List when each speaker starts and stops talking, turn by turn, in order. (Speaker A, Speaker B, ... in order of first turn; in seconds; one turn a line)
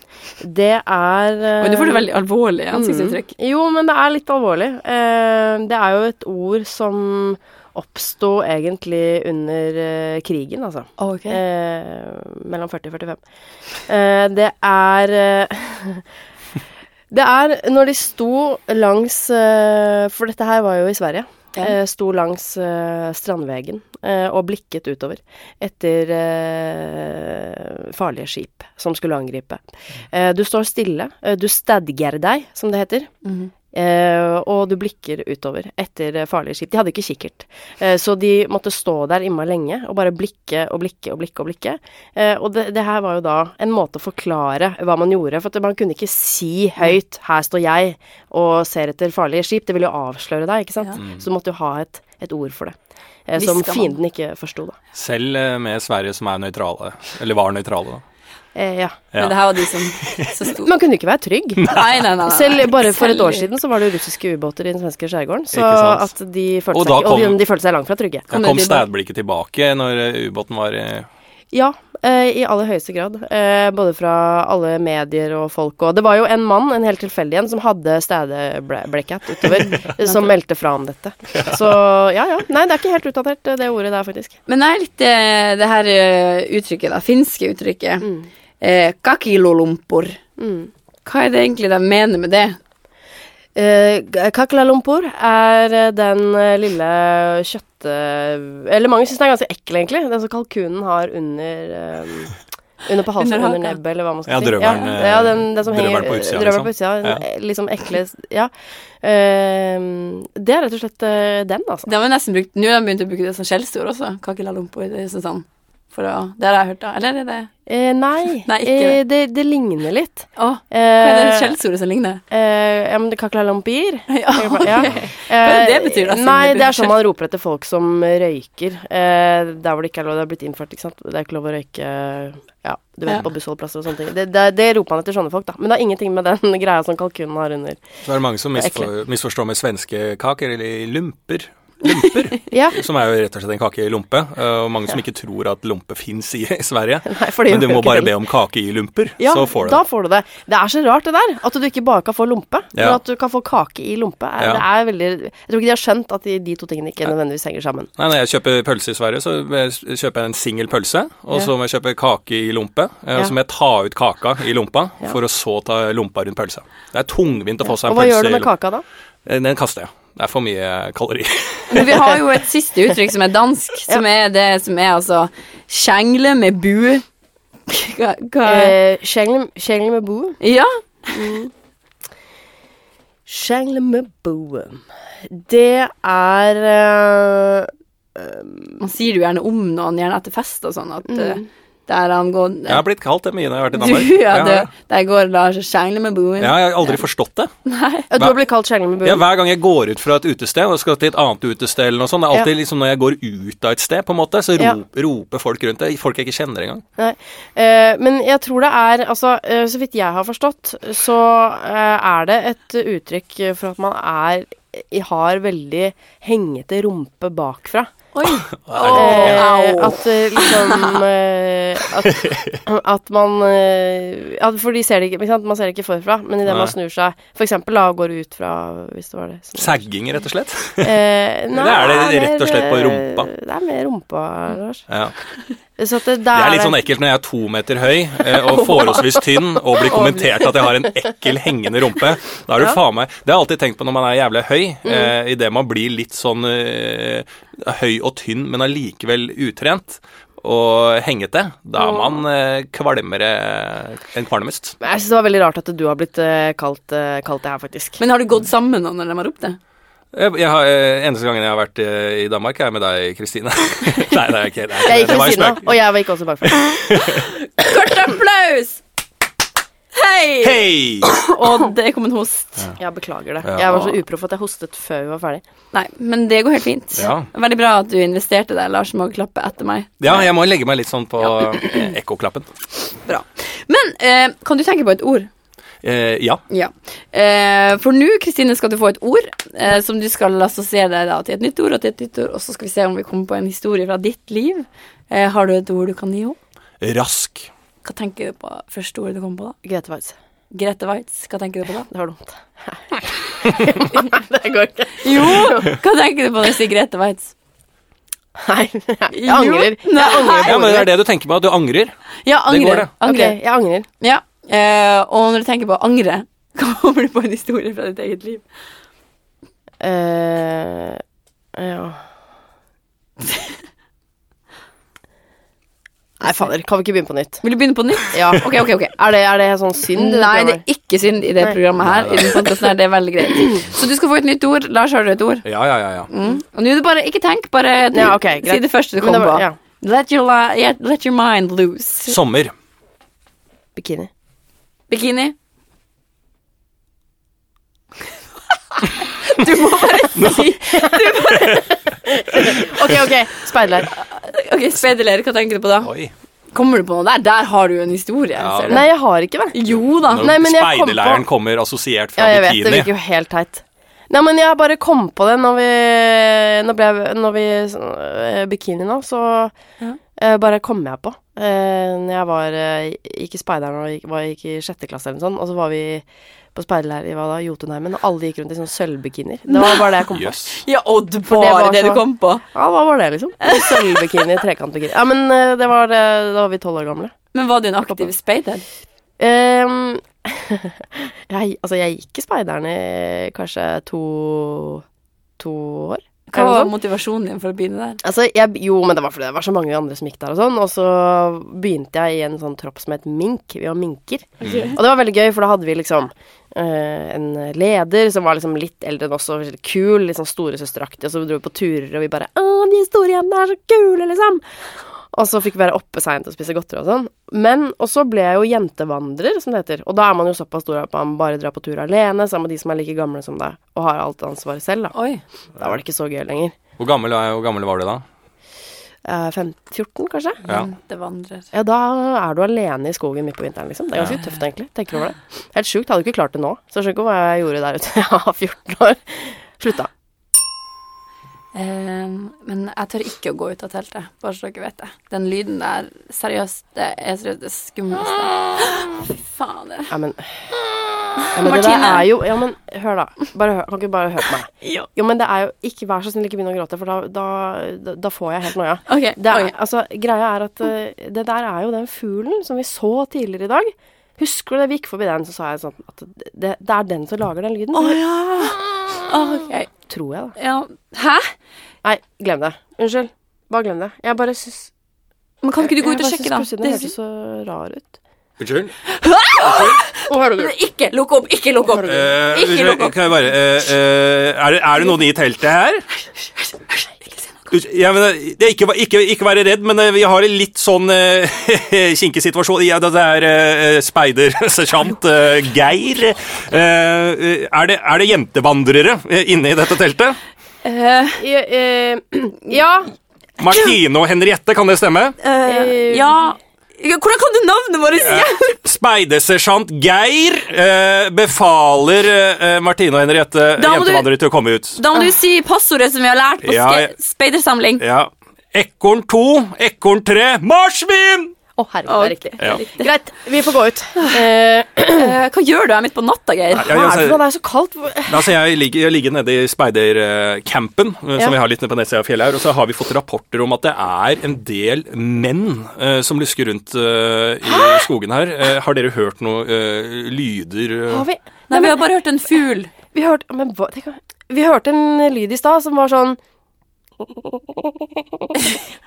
Speaker A: 0.4-2.0
Speaker B: 1.6-3.3
Speaker A: 2.7-13.2
Speaker B: 11.0-11.4
Speaker A: 13.8-16.0
Speaker A: 17.1-33.1
Speaker B: 33.2-33.5
Speaker A: 33.7-54.8
Speaker B: 53.4-53.9
Speaker C: 54.9-58.0
Speaker A: 58.5-59.0
Speaker C: 59.1-60.3
Speaker B: 59.2-60.7
Speaker A: 60.5-61.6
Speaker B: 61.6-63.5
Speaker C: 61.6-62.0
Speaker A: 62.2-68.3
Speaker C: 65.5-66.1
Speaker C: 66.7-67.4
Speaker C: 68.3-71.1
Speaker B: 68.3-68.9
Speaker A: 71.5-84.3
Speaker B: 84.5-88.1
Speaker A: 88.0-88.3
Speaker B: 88.6-90.2
Speaker A: 90.4-90.7
Speaker B: 91.0-92.6
Speaker A: 93.5-111.9
Speaker B: 103.2-103.8
Speaker C: 104.3-107.2
Speaker B: 104.7-104.9
Speaker B: 111.8-117.5
Speaker A: 117.7-121.5
Speaker B: 118.5-119.0
Speaker B: 120.3-122.2
Speaker A: 122.3-137.8
Speaker B: 124.1-126.9
Speaker C: 138.0-149.8
Speaker A: 138.5-138.9
Speaker A: 142.5-142.8
Speaker A: 147.1-148.1
Speaker A: 149.2-157.9
Speaker C: 154.4-154.6
Speaker C: 158.0-168.5
Speaker A: 167.8-168.8
Speaker C: 169.2-172.1
Speaker B: 171.7-177.0
Speaker B: 177.7-178.8
Speaker A: 178.4-180.4
Speaker B: 180.4-181.3
Speaker A: 181.1-181.5
Speaker A: 183.3-188.8
Speaker B: 188.8-192.8
Speaker A: 191.1-191.4
Speaker C: 192.7-194.7
Speaker B: 193.7-197.0
Speaker C: 196.4-197.5
Speaker B: 197.6-198.1
Speaker A: 198.1-199.2
Speaker C: 199.0-206.8
Speaker A: 207.0-217.9
Speaker B: 218.1-221.0
Speaker C: 218.7-219.5
Speaker A: 218.9-229.8
Speaker C: 222.1-222.6
Speaker C: 226.4-226.7
Speaker C: 229.6-231.0
Speaker A: 230.8-234.8
Speaker C: 231.5-233.3
Speaker C: 234.9-235.1
Speaker A: 235.8-236.8
Speaker C: 236.3-254.8
Speaker B: 238.5-239.0
Speaker B: 239.9-240.5
Speaker A: 244.8-245.1
Speaker A: 251.8-252.1
Speaker A: 254.8-258.0
Speaker B: 258.0-259.6
Speaker C: 260.1-265.7
Speaker A: 264.8-266.7
Speaker C: 266.5-267.3
Speaker B: 267.2-268.8
Speaker B: 269.9-272.6
Speaker C: 270.4-271.2
Speaker A: 272.8-275.4
Speaker C: 273.4-273.9
Speaker B: 275.7-280.2
Speaker C: 276.9-277.3
Speaker C: 280.0-282.5
Speaker B: 283.1-285.3
Speaker C: 285.8-286.4
Speaker B: 286.5-296.4
Speaker C: 296.8-297.5
Speaker B: 297.8-299.6
Speaker A: 299.6-300.2
Speaker B: 300.5-301.9
Speaker A: 301.9-305.7
Speaker B: 305.0-307.3
Speaker A: 308.4-310.9
Speaker B: 309.1-310.8
Speaker C: 310.4-311.9
Speaker B: 312.2-313.4
Speaker C: 312.5-312.9
Speaker A: 313.0-313.9
Speaker B: 314.0-318.4
Speaker A: 319.8-321.0
Speaker A: 321.5-322.0
Speaker A: 326.2-327.4
Speaker B: 327.4-328.9
Speaker A: 328.1-330.6
Speaker B: 329.9-335.4
Speaker C: 331.8-332.4
Speaker C: 335.4-336.1
Speaker B: 336.1-342.1
Speaker A: 337.9-339.6
Speaker C: 342.1-342.5
Speaker A: 343.8-344.1
Speaker B: 344.9-345.3
Speaker B: 349.1-351.6
Speaker C: 350.1-350.5
Speaker A: 350.7-353.9
Speaker B: 354.1-355.9
Speaker C: 355.8-356.1
Speaker B: 356.5-358.9
Speaker C: 358.4-358.8
Speaker A: 358.7-359.6
Speaker B: 359.5-360.3
Speaker C: 360.1-362.9
Speaker A: 360.1-361.2
Speaker A: 362.2-369.6
Speaker A: 370.1-380.4
Speaker B: 379.5-380.0
Speaker C: 380.1-380.6
Speaker B: 380.5-382.4
Speaker A: 381.3-387.1
Speaker B: 383.4-383.9
Speaker B: 387.3-388.6
Speaker A: 389.2-394.8
Speaker A: 395.4-396.7
Speaker B: 396.3-398.0
Speaker A: 398.0-414.4
Speaker C: 404.4-404.7
Speaker B: 404.4-404.8
Speaker A: 415.0-424.9
Speaker B: 424.9-425.2
Speaker A: 425.6-426.5
Speaker C: 426.8-428.0
Speaker A: 429.0-430.4
Speaker B: 430.4-431.5
Speaker A: 431.5-439.9
Speaker B: 441.5-449.9
Speaker A: 449.9-450.5
Speaker B: 451.2-452.1
Speaker A: 451.3-468.0
Speaker B: 458.9-459.5
Speaker B: 467.7-469.7
Speaker A: 469.9-470.3
Speaker B: 470.4-471.3
Speaker A: 471.8-474.7
Speaker B: 475.4-476.9
Speaker A: 475.6-478.0
Speaker C: 478.4-478.7
Speaker B: 478.8-483.0
Speaker A: 479.9-480.5
Speaker C: 481.8-485.8
Speaker B: 486.2-487.5
Speaker C: 487.5-500.2
Speaker B: 500.6-501.2
Speaker A: 501.2-502.9
Speaker C: 503.4-505.1
Speaker B: 505.2-508.6
Speaker A: 505.4-506.1
Speaker C: 508.0-514.8
Speaker B: 513.6-514.1
Speaker B: 514.8-517.8
Speaker C: 516.4-516.9
Speaker C: 517.8-521.3
Speaker A: 521.5-525.1
Speaker B: 521.9-522.8
Speaker B: 524.9-526.7
Speaker A: 526.5-528.3
Speaker C: 526.6-527.2
Speaker C: 528.1-541.1
Speaker A: 537.4-537.9
Speaker A: 540.9-541.8
Speaker B: 541.5-542.7
Speaker A: 542.9-546.2
Speaker A: 547.0-548.3